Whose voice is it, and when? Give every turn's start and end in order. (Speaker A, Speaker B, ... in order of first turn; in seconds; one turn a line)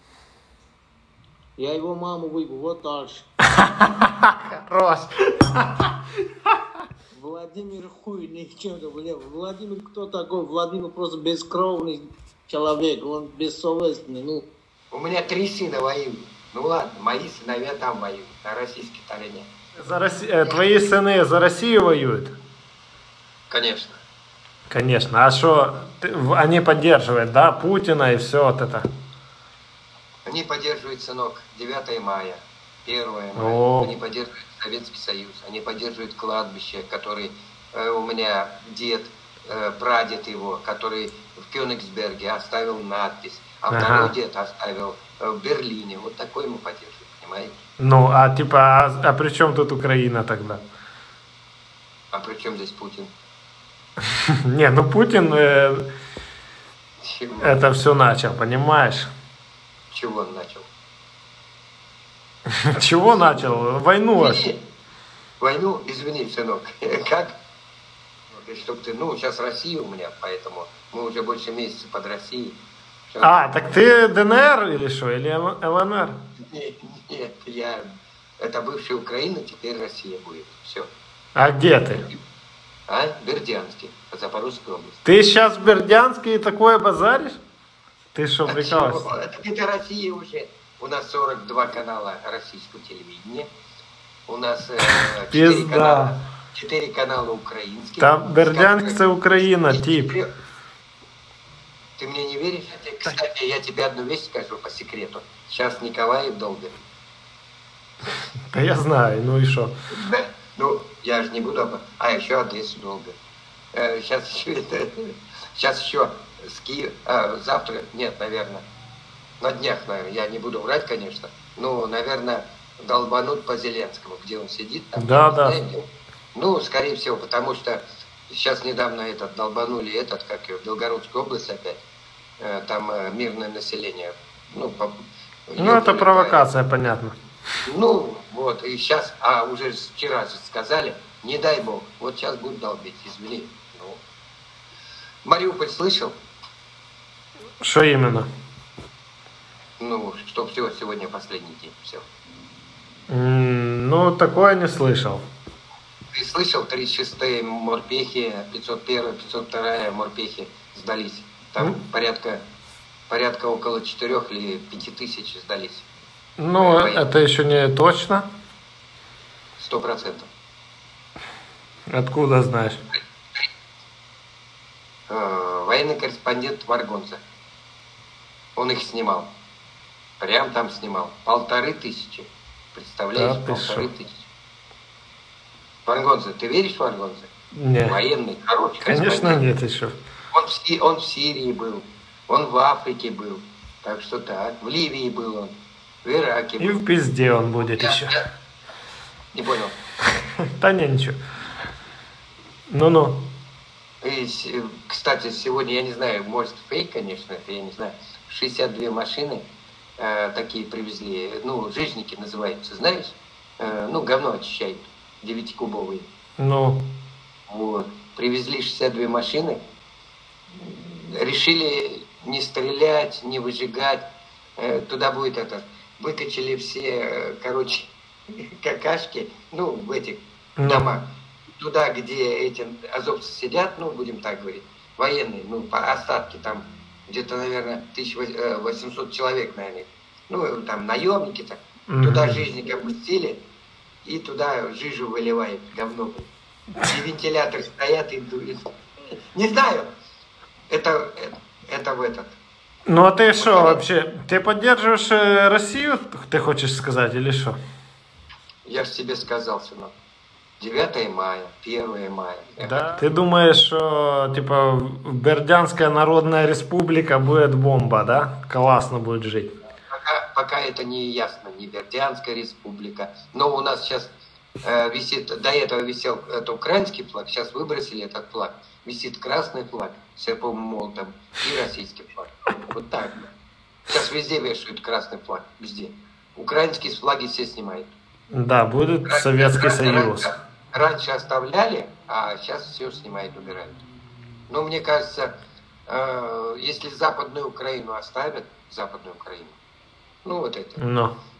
Speaker A: 1.6-3.2
Speaker B: 3.6-5.9
Speaker A: 7.1-14.4
Speaker C: 14.9-19.5
Speaker B: 19.8-22.3
Speaker C: 23.5-24.0
Speaker B: 24.7-28.9
Speaker C: 30.3-47.5
Speaker B: 33.4-33.9
Speaker B: 43.7-44.1
Speaker B: 47.8-50.6
Speaker C: 52.1-53.1
Speaker B: 54.5-55.8
Speaker C: 57.0-57.6
Speaker B: 57.4-59.1
Speaker C: 59.9-60.7
Speaker B: 62.7-64.4
Speaker C: 63.1-63.4
Speaker C: 64.2-64.6
Speaker C: 65.4-67.3
Speaker C: 68.3-72.6
Speaker B: 73.2-76.1
Speaker C: 76.5-77.8
Speaker C: 78.4-80.9
Speaker B: 81.3-82.1
Speaker C: 82.9-85.0
Speaker B: 85.0-87.4
Speaker B: 88.1-89.1
Speaker C: 88.5-93.5
Speaker C: 94.3-100.3
Speaker B: 94.8-96.1
Speaker B: 98.0-100.2
Speaker C: 102.0-106.7
Speaker B: 108.5-109.7
Speaker C: 109.9-113.1
Speaker C: 113.7-118.6
Speaker C: 119.4-125.8
Speaker B: 125.0-125.5
Speaker C: 126.3-131.8
Speaker C: 132.4-134.9
Speaker C: 135.5-136.4
Speaker B: 135.6-137.1
Speaker C: 137.7-144.0
Speaker C: 145.2-146.1
Speaker B: 147.6-148.3
Speaker C: 149.8-152.1
Speaker B: 153.1-155.2
Speaker C: 156.1-162.4
Speaker C: 163.1-165.9
Speaker B: 166.4-168.2
Speaker C: 166.6-167.1
Speaker C: 169.6-170.3
Speaker B: 171.9-172.8
Speaker C: 175.1-177.2
Speaker C: 178.6-179.3
Speaker C: 180.2-184.2
Speaker B: 183.1-183.9
Speaker C: 185.8-187.3
Speaker B: 187.6-188.0
Speaker C: 187.8-189.4
Speaker B: 188.8-189.9
Speaker C: 190.3-196.8
Speaker B: 196.6-198.2
Speaker C: 197.8-198.2
Speaker C: 199.3-199.8
Speaker B: 200.6-201.2
Speaker B: 202.7-203.3
Speaker C: 204.0-209.4
Speaker C: 210.0-216.1
Speaker B: 216.4-216.8
Speaker C: 217.5-219.6
Speaker C: 220.6-224.0
Speaker C: 224.6-227.9
Speaker C: 228.6-231.0
Speaker B: 230.6-230.9
Speaker C: 231.6-243.4
Speaker B: 241.9-242.4
Speaker C: 244.0-246.3
Speaker C: 246.8-248.6
Speaker C: 249.3-249.9
Speaker C: 250.7-252.4
Speaker B: 252.9-257.6
Speaker C: 253.3-253.8
Speaker C: 258.6-259.9
Speaker C: 260.6-263.1
Speaker B: 262.6-269.5
Speaker C: 269.9-283.2
Speaker C: 283.9-287.9
Speaker B: 288.3-290.3
Speaker C: 289.1-293.8
Speaker C: 294.5-295.3
Speaker C: 295.9-299.6
Speaker C: 300.2-300.8
Speaker B: 300.8-301.1